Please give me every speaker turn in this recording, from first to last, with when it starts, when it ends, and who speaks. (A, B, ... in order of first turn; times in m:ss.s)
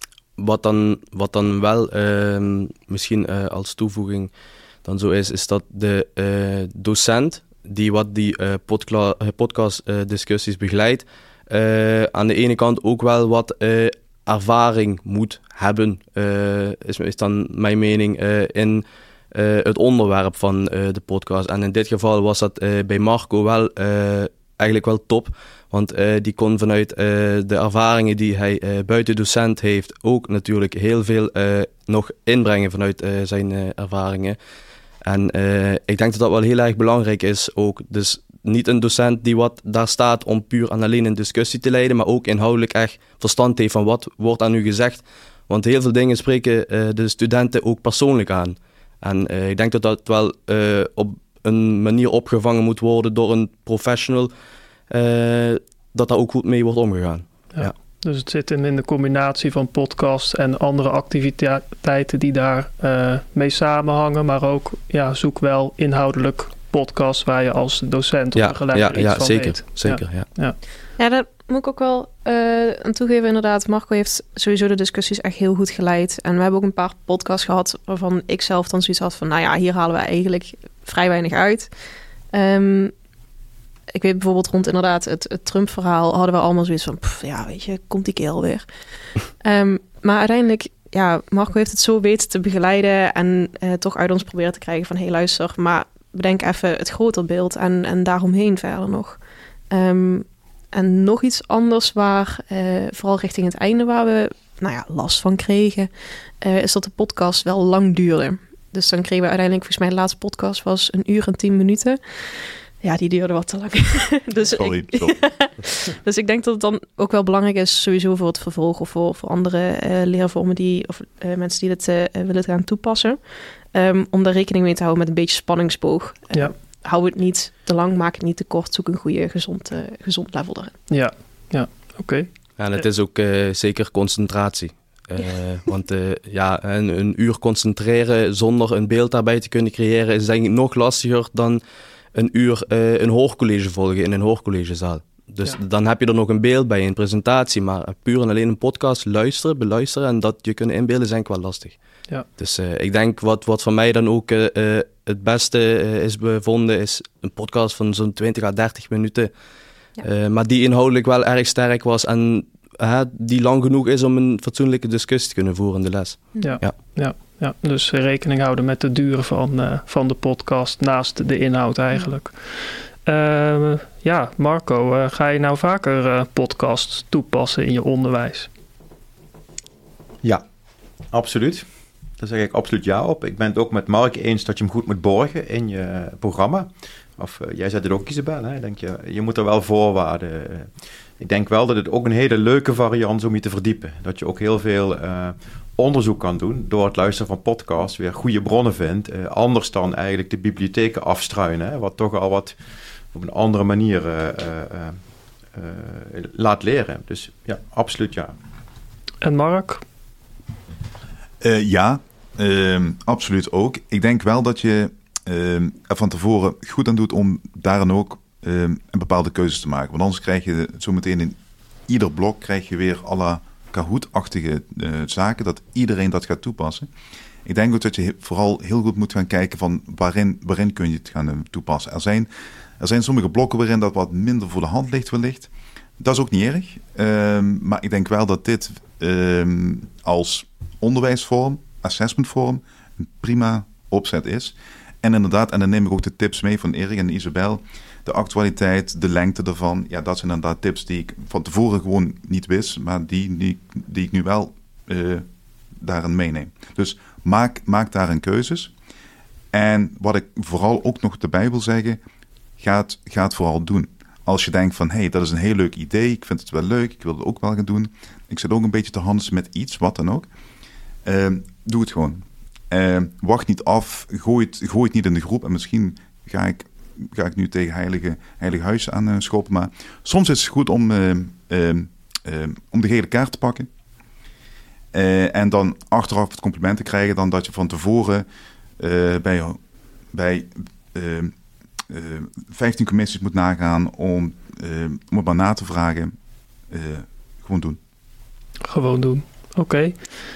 0:00.4-0:04.3 A
0:04.8-0:34.4 A
0:35.0-0:54.3 A
0:54.9-0:57.7 A
0:57.6-1:10.6 B
1:08.4-1:10.3 A
1:11.0-1:21.7 C
1:22.3-1:22.9 C
1:23.9-1:28.7 C
1:29.4-1:39.2 C
1:39.7-1:45.9 C
1:46.4-2:03.2 C
1:54.5-1:55.2 D
2:03.7-2:10.8 C
2:10.9-2:12.3 B
2:12.6-2:21.6 A
2:22.1-2:31.8 A
2:32.4-2:39.3 A
2:40.0-2:46.8 A
2:46.4-2:58.5 B
3:01.1-3:01.7 E
3:02.2-3:22.6 E
3:23.1-3:25.0 E
3:25.5-3:28.3 E
3:29.2-3:29.8 B
3:31.4-3:41.4 D
3:41.9-3:46.9 D
3:47.4-3:52.3 D
3:52.8-4:15.3 D
4:15.8-4:18.7 D
4:19.5-4:22.0 D
4:22.6-4:30.3 D
4:31.0-4:43.7 D
4:44.9-4:48.3 D
4:48.8-4:49.6 D
4:50.1-4:51.3 D
4:51.9-4:56.1 D
4:56.7-4:57.8 D
4:58.7-5:00.0 B